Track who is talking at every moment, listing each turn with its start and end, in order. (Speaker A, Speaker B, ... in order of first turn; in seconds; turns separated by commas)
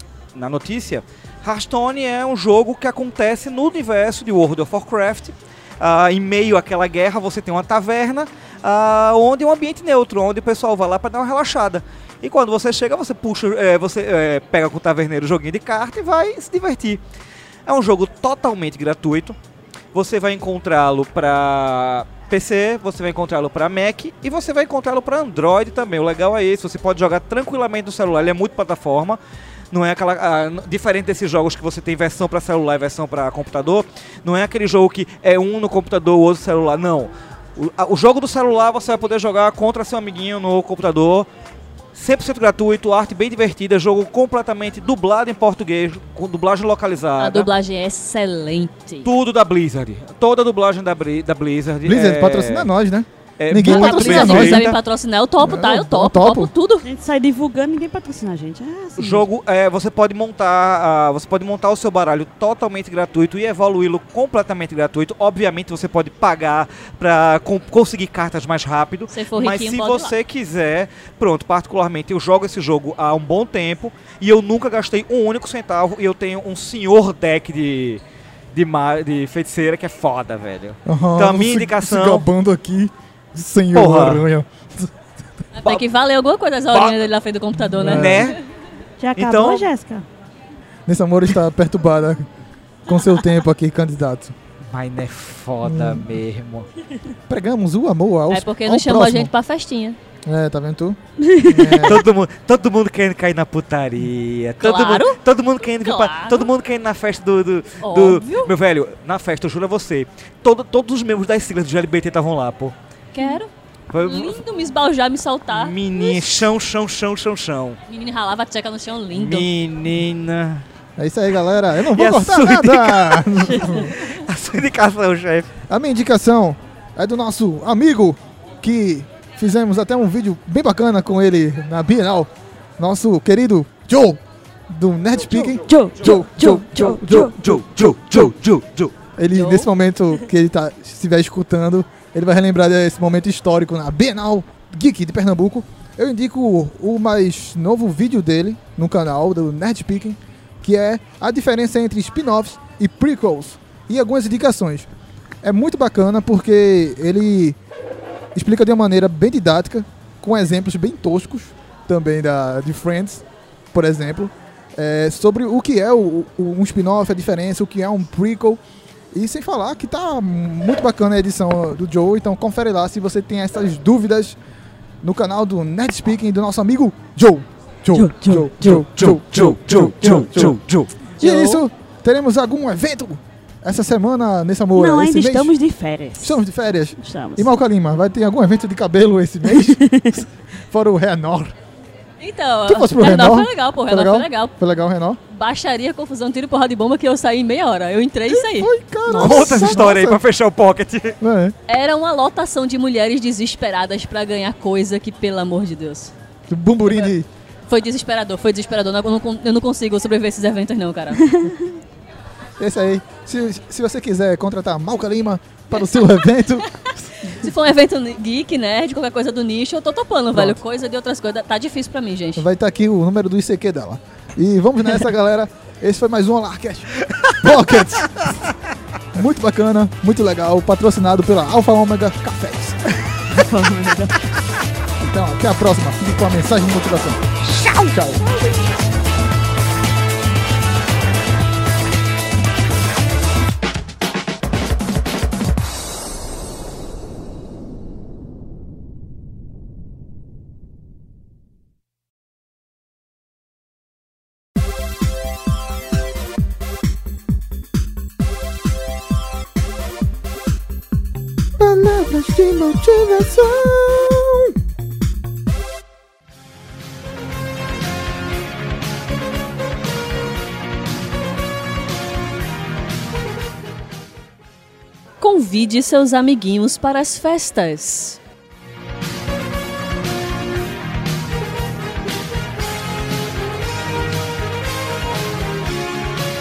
Speaker A: 0.3-17.0, Speaker A: 17.7-19.4, Speaker A: 19.9-29.2, Speaker A: 29.7-41.3, Speaker A: 42.0-47.5, Speaker B: 47.2-49.1, Speaker A: 49.0-52.7, Speaker C: 51.9-54.8, Speaker A: 53.4-54.8, Speaker B: 53.6-56.9, Speaker C: 55.4-56.5, Speaker D: 56.8-59.2, Speaker A: 59.0-78.0, Speaker B: 69.1-70.1, Speaker A: 78.5-82.2, Speaker C: 80.9-84.9, Speaker A: 83.7-84.2, Speaker B: 85.5-88.4, Speaker A: 86.7-87.0, Speaker C: 87.8-88.3, Speaker A: 87.8-88.4, Speaker D: 89.0-90.1, Speaker A: 89.2-89.7, Speaker C: 90.9-92.2, Speaker C: 92.9-94.3, Speaker A: 94.7-96.7, Speaker C: 95.6-96.2, Speaker C: 97.3-99.3, Speaker B: 98.3-100.0, Speaker C: 100.2-102.0, Speaker D: 101.2-101.9, Speaker A: 101.8-112.8, Speaker B: 104.6-105.2, Speaker B: 105.8-106.5, Speaker B: 107.8-108.5, Speaker B: 113.1-113.5, Speaker A: 113.9-114.4, Speaker B: 114.0-116.3, Speaker A: 115.5-117.8, Speaker B: 117.9-119.5, Speaker A: 119.1-120.7, Speaker C: 121.0-123.9, Speaker A: 121.9-125.5, Speaker C: 125.7-137.6, Speaker D: 135.5-137.4, Speaker A: 137.2-139.0, Speaker C: 139.2-154.9, Speaker B: 139.3-139.7, Speaker C: 155.4-157.6, Speaker C: 158.3-168.6, Speaker C: 169.1-174.4, Speaker C: 175.0-180.6, Speaker D: 177.9-180.5, Speaker A: 178.9-180.9, Speaker C: 181.2-185.5, Speaker D: 181.2-181.6, Speaker D: 184.8-186.4, Speaker C: 186.2-191.6, Speaker D: 187.0-187.5, Speaker D: 189.5-190.2, Speaker B: 192.2-194.5, Speaker C: 192.7-195.2, Speaker B: 195.3-198.7, Speaker C: 198.3-200.2, Speaker D: 199.1-199.9, Speaker A: 199.2-201.2, Speaker C: 201.2-201.6, Speaker B: 201.7-206.1, Speaker C: 206.5-207.3, Speaker B: 207.7-211.5, Speaker D: 211.3-211.6, Speaker C: 212.6-216.7, Speaker B: 216.8-222.4, Speaker C: 220.3-220.6, Speaker C: 222.4-228.3, Speaker C: 229.1-232.8, Speaker D: 233.3-234.2, Speaker C: 235.0-237.2, Speaker D: 237.4-238.7, Speaker C: 237.9-238.2, Speaker C: 261.6-264.5, Speaker B: 275.2-278.2